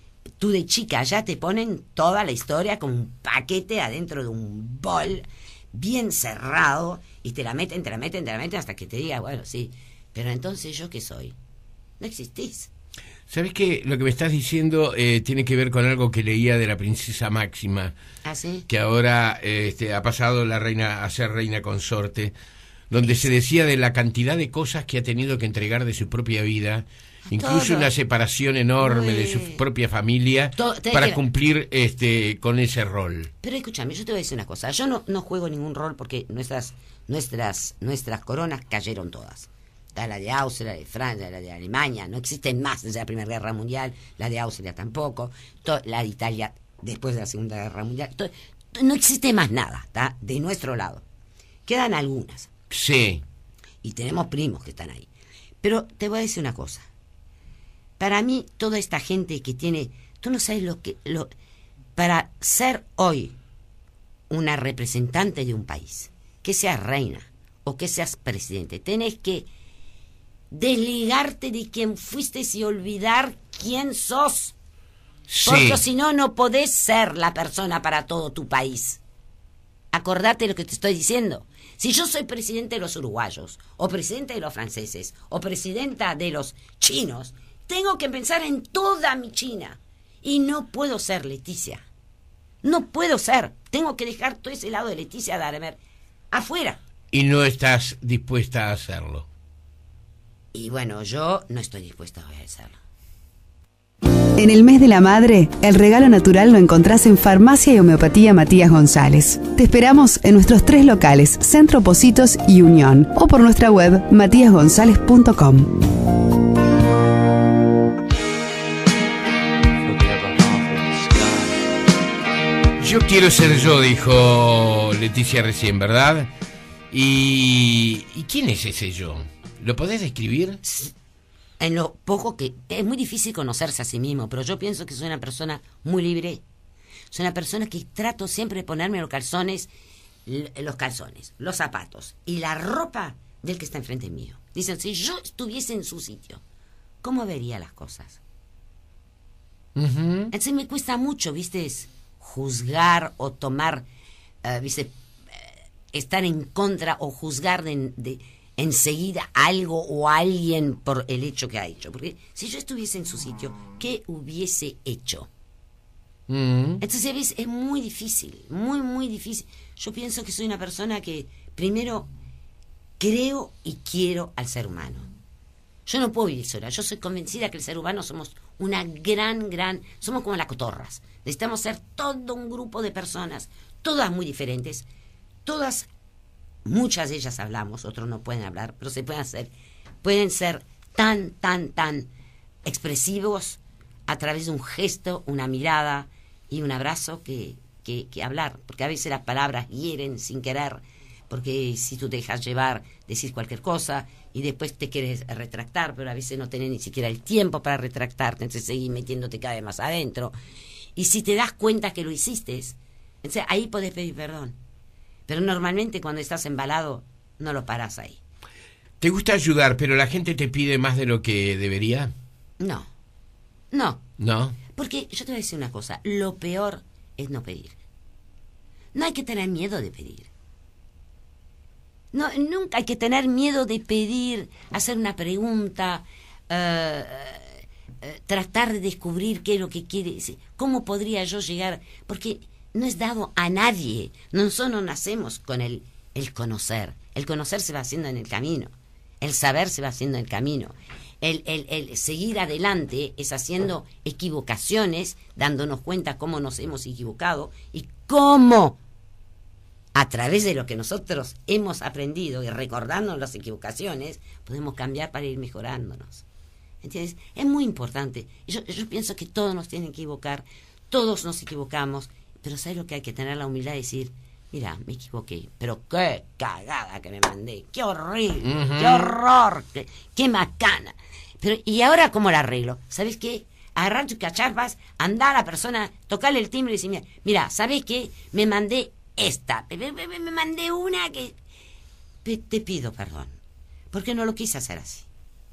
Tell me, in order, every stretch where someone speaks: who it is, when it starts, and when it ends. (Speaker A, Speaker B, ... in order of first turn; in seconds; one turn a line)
Speaker A: 0.4-11.3
Speaker A: 12.0-12.7
Speaker B: 13.3-17.9
Speaker A: 18.2-18.6
Speaker B: 18.7-22.3
Speaker B: 22.9-33.3
Speaker A: 27.3-27.9
Speaker A: 28.8-29.6
Speaker A: 30.5-31.2
Speaker A: 33.4-51.0
Speaker A: 51.6-52.5
Speaker B: 52.7-53.2
Speaker A: 53.8-55.1
Speaker A: 55.6-56.9
Speaker A: 58.0-61.3
Speaker A: 62.0-63.3
Speaker A: 64.3-69.5
Speaker A: 70.5-74.5
Speaker B: 75.3-75.8
Speaker A: 75.4-79.0
Speaker A: 79.9-91.8
Speaker A: 92.6-95.8
Speaker A: 96.3-96.8
Speaker B: 97.1-99.3
Speaker A: 100.5-102.8
Speaker C: 104.3-116.0
Speaker B: 119.8-121.5
Speaker B: 122.8-126.3
Speaker B: 126.9-130.6
Speaker A: 130.6-130.9
Speaker A: 131.6-136.4
Speaker A: 137.1-139.7
Speaker A: 140.2-146.4
Speaker A: 147.0-148.2
Speaker B: 149.8-150.3
Speaker A: 150.3-153.8
Speaker A: 154.4-165.3
Speaker B: 166.3-166.8
Speaker A: 166.8-172.1
Speaker A: 173.0-175.1
Speaker A: 175.8-184.9
Speaker A: 185.4-185.9
Speaker A: 186.6-189.5
Speaker A: 190.0-192.1
Speaker A: 192.6-210.3
Speaker A: 210.9-214.6
Speaker A: 215.3-218.2
Speaker B: 219.0-222.1
Speaker A: 222.6-222.9
Speaker A: 223.7-224.0
Speaker B: 224.2-224.6
Speaker A: 224.7-227.8
Speaker A: 228.9-230.3
Speaker A: 232.1-258.8
Speaker A: 259.9-266.2
Speaker A: 266.8-291.4
Speaker B: 278.4-279.1
Speaker A: 292.2-293.4
Speaker A: 293.9-295.1